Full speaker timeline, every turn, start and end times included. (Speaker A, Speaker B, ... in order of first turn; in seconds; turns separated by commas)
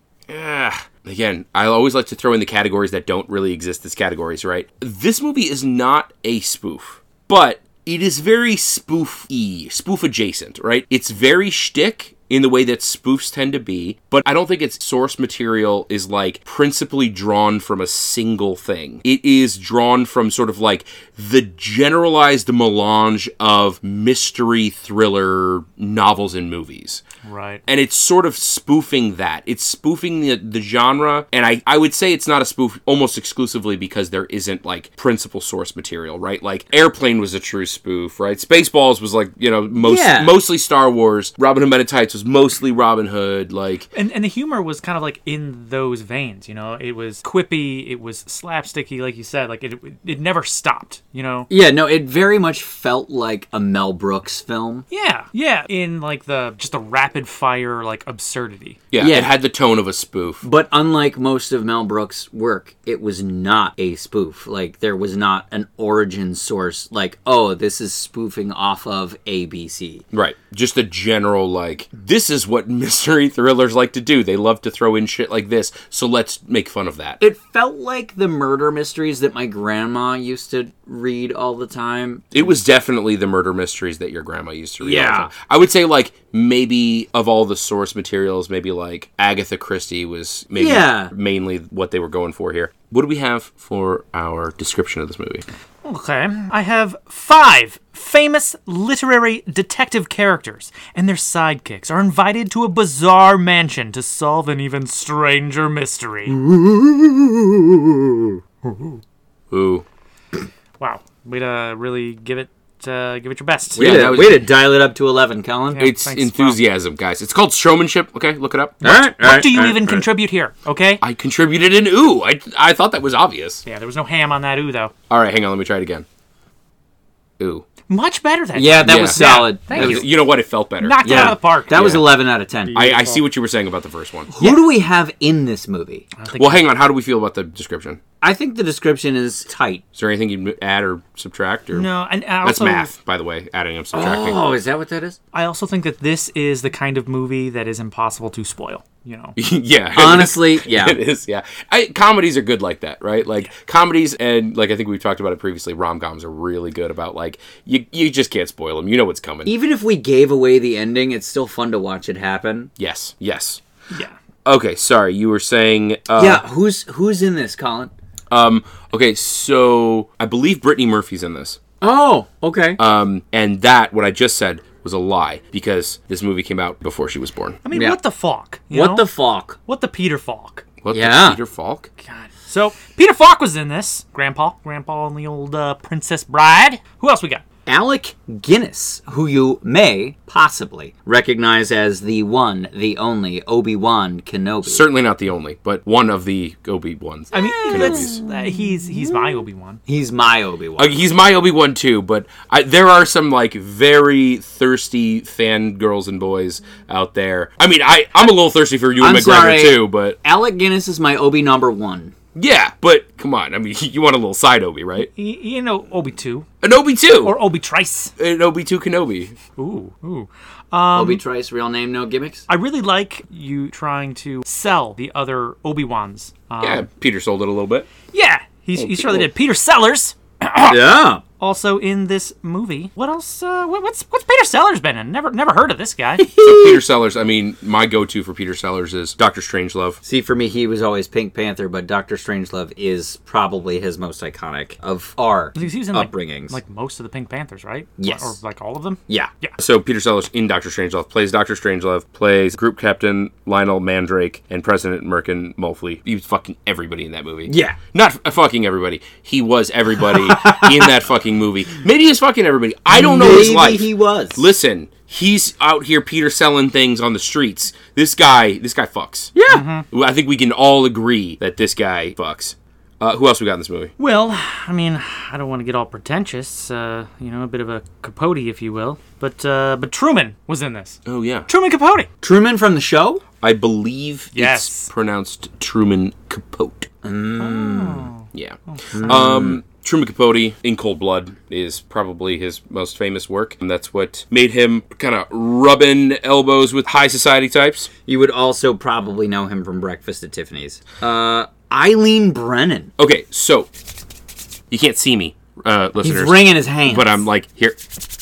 Speaker A: 0.3-27.0, Speaker B: 27.2-27.6, Speaker A: 27.7-43.9, Speaker C: 39.8-40.4, Speaker B: 43.9-51.5, Speaker C: 51.5-54.9, Speaker B: 54.9-58.8, Speaker A: 58.9-60.4, Speaker C: 59.0-59.3, Speaker C: 60.4-70.0, Speaker A: 70.1-77.2, Speaker C: 77.2-82.3, Speaker A: 82.3-95.5, Speaker C: 84.8-85.3, Speaker C: 90.6-91.1, Speaker B: 95.8-106.3, Speaker C: 106.3-108.4, Speaker B: 108.6-109.0, Speaker A: 109.5-109.8, Speaker B: 110.8-113.9, Speaker C: 113.7-115.8, Speaker A: 113.8-114.5, Speaker B: 115.8-116.6, Speaker A: 115.8-118.8, Speaker B: 118.8-121.0, Speaker C: 118.8-120.0, Speaker A: 121.0-123.6, Speaker B: 123.7-124.9, Speaker A: 125.1-126.1, Speaker A: 127.4-127.7, Speaker B: 127.9-130.2, Speaker C: 128.6-130.1, Speaker A: 128.8-132.1, Speaker B: 130.8-131.8, Speaker C: 131.0-132.8, Speaker B: 132.7-133.2, Speaker A: 132.7-134.3, Speaker C: 134.3-136.1, Speaker B: 134.4-134.6, Speaker B: 136.2-136.6, Speaker A: 136.3-138.0, Speaker C: 138.2-139.8, Speaker A: 139.9-141.9, Speaker B: 141.7-142.9, Speaker A: 142.4-144.4, Speaker C: 143.9-145.2, Speaker B: 145.3-149.4, Speaker A: 149.4-159.5, Speaker C: 149.9-151.0, Speaker C: 159.5-162.7, Speaker A: 162.8-163.6, Speaker B: 163.9-164.2, Speaker A: 164.4-166.4, Speaker C: 166.2-167.9, Speaker A: 168.3-171.6, Speaker C: 171.8-172.8, Speaker A: 172.8-177.6, Speaker B: 177.6-180.7, Speaker C: 177.7-178.0, Speaker C: 178.7-179.6, Speaker A: 180.8-181.9, Speaker C: 180.9-181.4, Speaker B: 182.0-187.4, Speaker C: 187.7-194.9, Speaker A: 194.7-198.2, Speaker B: 197.3-199.8, Speaker C: 197.7-198.2, Speaker C: 199.9-201.0, Speaker A: 200.8-210.2, Speaker C: 209.0-212.1, Speaker A: 212.3-215.1, Speaker B: 215.0-216.5, Speaker A: 216.6-217.4, Speaker B: 217.1-218.1, Speaker A: 218.2-219.4, Speaker B: 219.6-221.2, Speaker C: 220.9-222.5, Speaker B: 222.5-226.8, Speaker A: 226.6-227.9, Speaker B: 228.1-236.3, Speaker A: 228.8-229.3, Speaker C: 230.7-231.2, Speaker C: 236.2-236.8, Speaker A: 236.4-240.0, Speaker C: 240.1-246.6, Speaker B: 245.6-249.6, Speaker C: 248.0-248.4, Speaker A: 249.6-269.3, Speaker C: 257.5-257.8, Speaker C: 260.1-260.9, Speaker C: 262.9-264.5, Speaker C: 269.4-269.6, Speaker B: 269.5-269.9, Speaker A: 269.9-273.9, Speaker B: 274.0-282.1, Speaker A: 281.1-281.5, Speaker C: 282.2-283.2, Speaker A: 283.4-286.9, Speaker B: 284.3-284.9, Speaker C: 287.0-288.1, Speaker B: 287.4-289.0, Speaker A: 288.3-297.9, Speaker C: 288.9-289.6, Speaker C: 298.1-302.9, Speaker A: 303.0-303.7, Speaker A: 304.7-307.8, Speaker C: 306.0-307.2